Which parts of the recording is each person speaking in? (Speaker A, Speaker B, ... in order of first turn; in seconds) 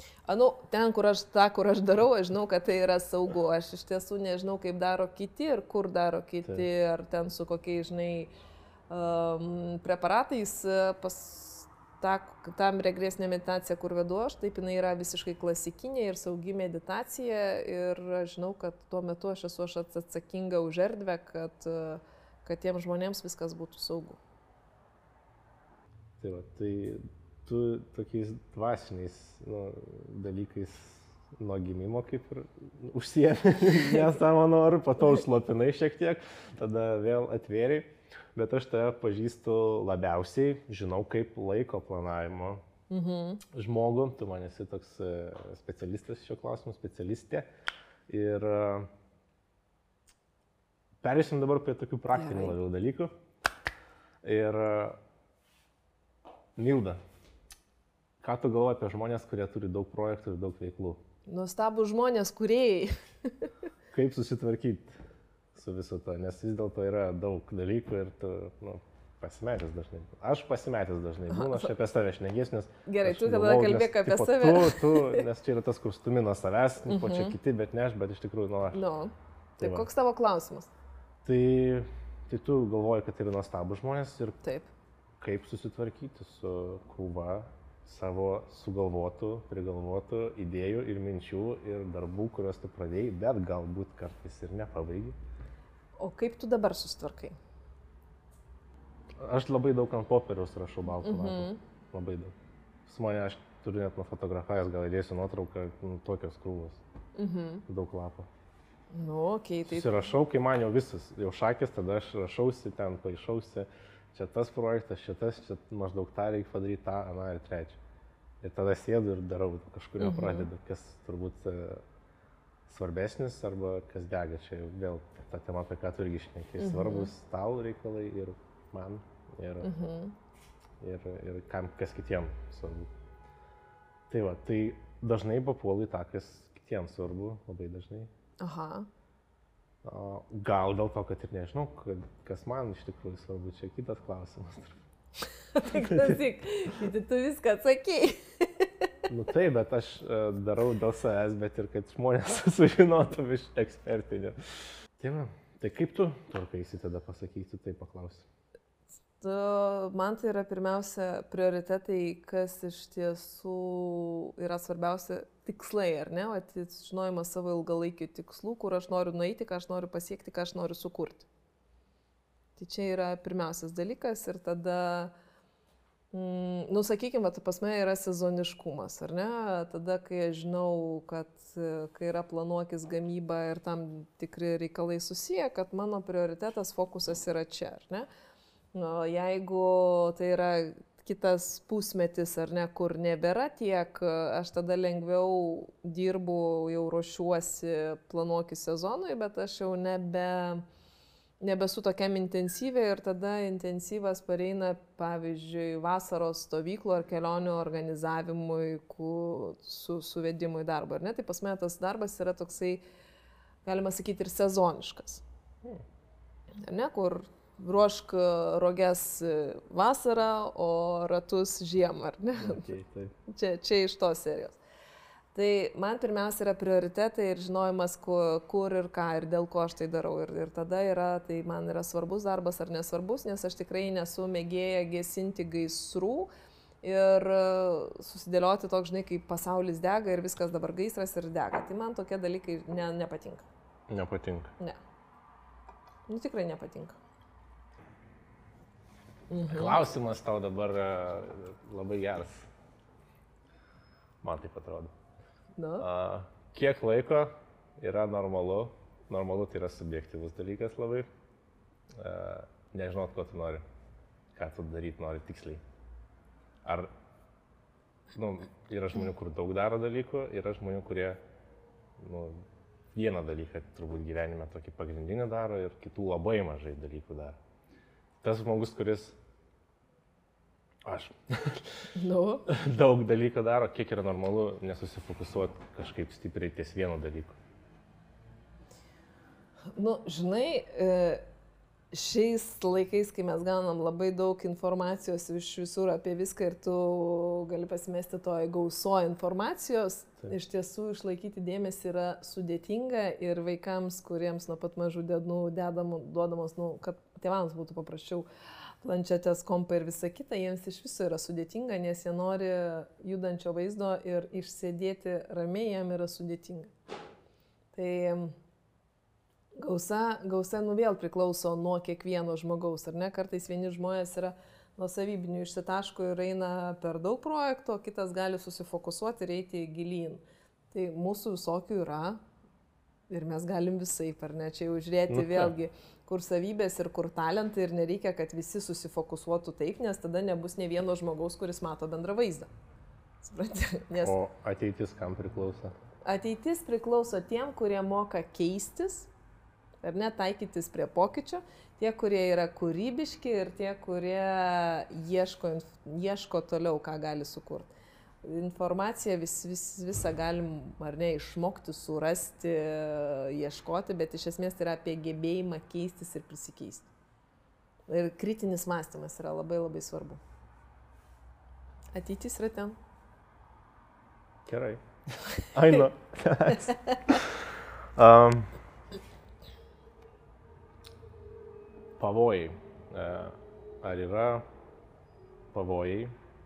Speaker A: 0.3-8.3, 8.9-24.2, 42.9-43.4, 52.1-52.6, 61.3-63.5, 71.3-71.7, 72.9-75.2, 76.9-77.3, 78.7-80.7, 84.4-84.7, 96.0-97.3, 101.0-101.6, 107.2-107.6, 108.9-109.9, 120.0-120.5, 126.6-127.1, 129.6-130.1, 138.4-138.9, 145.5-148.8, 159.2-171.3, 172.6-175.1, 176.1-188.1, 188.7-200.6, 201.4-212.8, 213.6-215.2, 216.6-222.7, 223.3-224.6, 225.3-236.3, 236.8-243.4, 246.1-247.0, 249.3-249.8, 255.6-255.8, 281.9-282.4, 289.7-291.2, 291.9-308.3, 308.8-316.7, 317.7-318.3, 319.6-332.2, 333.1-342.5, 343.2-344.1, 346.0-349.1, 349.8-357.7, 358.2-366.9, 367.9-370.2, 371.9-372.8, 376.6-377.2
Speaker B: 26.2-42.6, 43.5-47.5, 48.1-48.9, 51.0-53.1, 54.2-55.0, 56.5-57.0, 58.2-61.0, 63.9-64.9, 65.5-78.8, 79.6-79.9, 81.2-84.4, 85.2-95.2, 99.2-102.3, 102.8-106.8, 107.7-108.3, 109.7-117.8, 118.4-121.8, 122.7-129.7, 130.8-132.9, 134.1-138.1, 139.8-144.8, 145.7-146.2, 149.1-154.3, 155.0-158.3, 222.4-223.2, 243.9-244.5, 249.4-252.5, 254.2-254.9, 255.8-261.1, 261.9-263.6, 264.3-265.6, 266.6-266.9, 268.1-271.2, 272.0-277.4, 278.2-279.2, 280.8-281.9, 282.5-287.4, 335.1-335.5, 344.0-345.7, 374.4-378.5, 382.0-384.4, 385.5-386.1